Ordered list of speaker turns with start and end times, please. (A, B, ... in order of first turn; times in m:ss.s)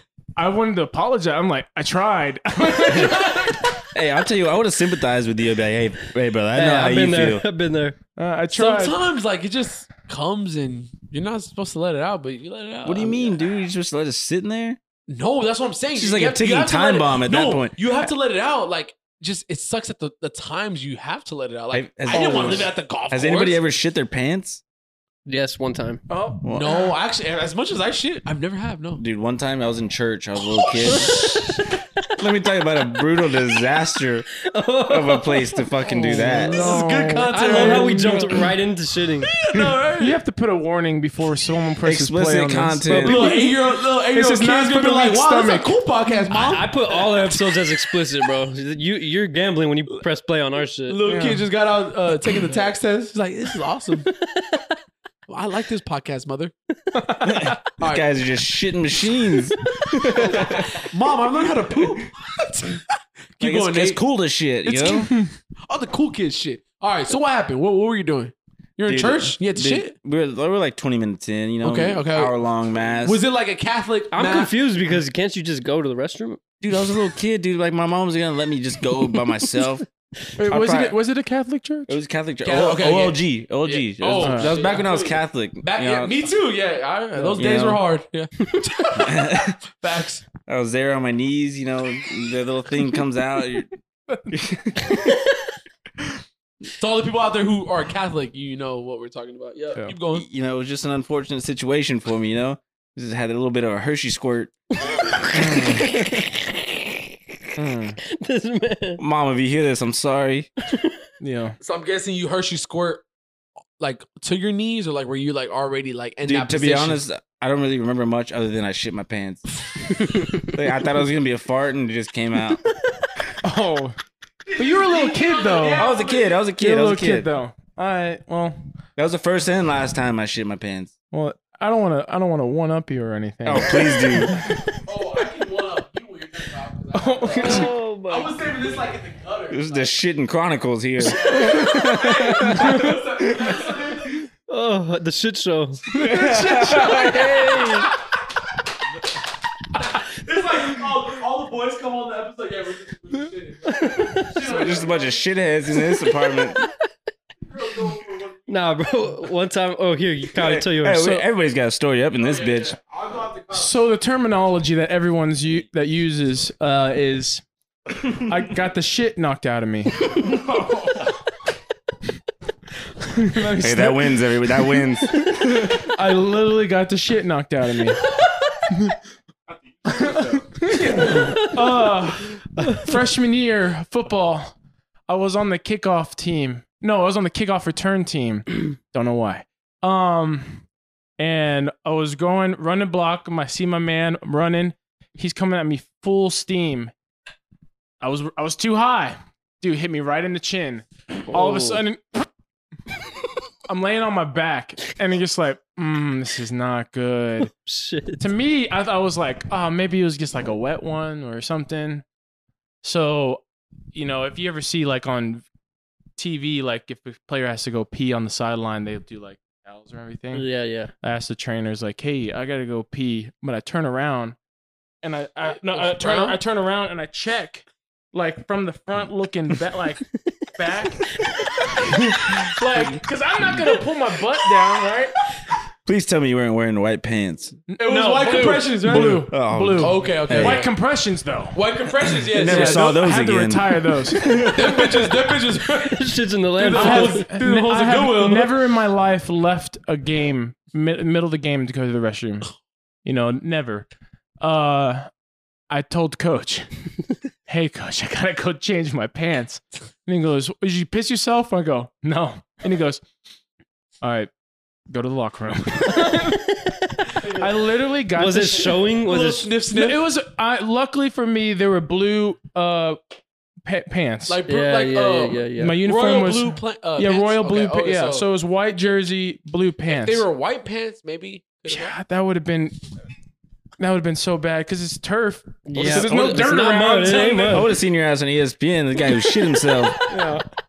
0:00.4-0:03.8 A
0:02.9-0:03.5 B
0:03.9-0:07.4 C
0:06.5-0:08.0 D
0:08.2-0:09.0 A
0:08.5-0:13.5 B
0:12.8-0:14.8 C
0:15.1-0:23.6 B
0:15.9-0:18.1 C
0:21.7-0:24.6 C
0:22.1-0:22.7 A
0:25.3-0:26.0 D
0:26.1-0:26.4 A
0:26.4-0:26.8 C
0:26.5-0:29.0 B
0:29.0-0:31.3 C
0:30.6-0:31.2 B
0:31.2-0:31.4 D
0:32.2-0:34.3 C
0:34.5-0:36.1 D
0:34.9-0:36.7 C
0:36.0-0:38.4 A
0:36.2-0:38.4 B
0:37.3-0:39.3 D
0:39.3-0:40.1 B
0:39.5-0:39.8 C
0:40.0-0:43.6 A
0:41.8-0:43.2 C
0:42.9-0:43.5 D
0:43.0-0:46.7 B
0:44.1-0:45.8 A
0:46.3-0:51.0 D
0:50.9-0:54.1 B
0:51.1-0:51.5 A
0:55.3-0:56.5 B
0:57.0-0:57.6 A
0:57.2-1:00.8 C
0:57.8-0:58.0 B
1:00.2-1:02.8 B
1:03.4-1:04.0 B
1:03.4-1:05.1 C
1:04.6-1:09.9 B
1:08.9-1:13.2 C
1:11.6-1:12.3 B
1:13.0-1:14.6 B
1:14.1-1:16.4 D
1:16.6-1:19.8 C
1:20.4-1:21.9 A
1:20.4-1:21.0 C
1:21.9-1:26.3 C
1:22.4-1:30.2 B
1:24.2-1:24.6 A
1:27.2-1:27.8 C
1:29.0-1:29.6 C
1:30.5-1:33.7 C
1:34.3-1:35.1 C
1:36.8-1:40.3 B
1:40.1-1:44.5 C
1:45.3-1:46.1 C
1:45.3-1:45.8 A
1:45.5-1:47.0 D
1:47.6-1:48.0 A
1:48.1-1:49.0 D
1:49.0-1:50.5 C
1:51.2-1:51.6 A
1:51.6-1:53.0 B
1:53.8-1:57.0 B
1:56.2-1:59.4 C
2:00.4-2:02.6 C
2:03.4-2:04.0 A
2:04.5-2:06.4 B
2:04.6-2:05.9 A
2:05.8-2:07.3 C
2:06.6-2:08.6 A
2:09.0-2:10.9 C
2:11.1-2:14.6 A
2:13.4-2:14.4 C
2:14.8-2:19.9 B
2:16.9-2:17.7 A
2:17.4-2:18.3 D
2:19.5-2:23.7 C
2:21.0-2:23.0 A
2:21.0-2:24.2 B
2:24.5-2:25.8 D
2:25.9-2:27.7 A
2:26.0-2:27.8 C
2:27.0-2:27.9 D
2:29.9-2:35.2 B
2:33.7-2:34.4 D
2:34.4-2:36.6 C
2:37.5-2:38.5 B
2:38.5-2:41.2 D
2:40.3-2:42.8 C
2:42.2-2:43.7 B
2:43.5-2:47.4 A
2:48.1-2:50.2 A
2:53.0-2:54.2 A
2:53.6-2:55.8 C
2:55.6-2:58.0 A
2:58.7-2:59.0 A
2:59.9-3:04.5 A
3:01.0-3:01.5 D
3:05.1-3:10.6 A
3:11.2-3:16.9 A
3:18.0-3:22.3 A
3:21.3-3:21.8 D
3:23.7-3:27.5 A
3:27.5-3:28.2 D
3:28.2-3:32.0 A
3:32.8-3:33.4 A
3:33.9-3:35.4 A
3:36.2-3:40.5 A
3:40.3-3:40.9 D
3:41.0-3:44.4 A
3:45.0-3:51.1 A
3:45.7-3:46.4 B
3:51.1-3:51.8 D
3:51.8-3:55.2 A
3:55.8-3:57.6 C
3:57.7-4:01.6 A
3:57.8-4:00.7 B
3:58.9-4:00.7 C
4:01.5-4:03.0 B
4:02.3-4:05.0 C
4:02.4-4:04.5 A
4:04.5-4:08.5 B
4:05.7-4:07.3 D
4:06.7-4:12.5 A
4:13.0-4:13.9 A
4:14.4-4:15.1 A
4:15.7-4:23.0 A
4:24.0-4:24.3 A
4:24.9-4:26.5 A
4:27.2-4:28.8 A
4:28.2-4:29.5 D
4:29.0-4:30.0 B
4:29.7-4:33.0 A
4:33.6-4:34.4 A
4:34.3-4:38.3 B
4:34.5-4:35.8 D
4:35.6-4:40.3 A
4:39.9-4:42.0 B
4:41.7-4:42.8 A
4:43.8-4:47.7 A
4:45.7-4:47.7 D
4:45.7-4:46.5 C
4:47.5-4:50.0 C
4:50.1-4:50.4 A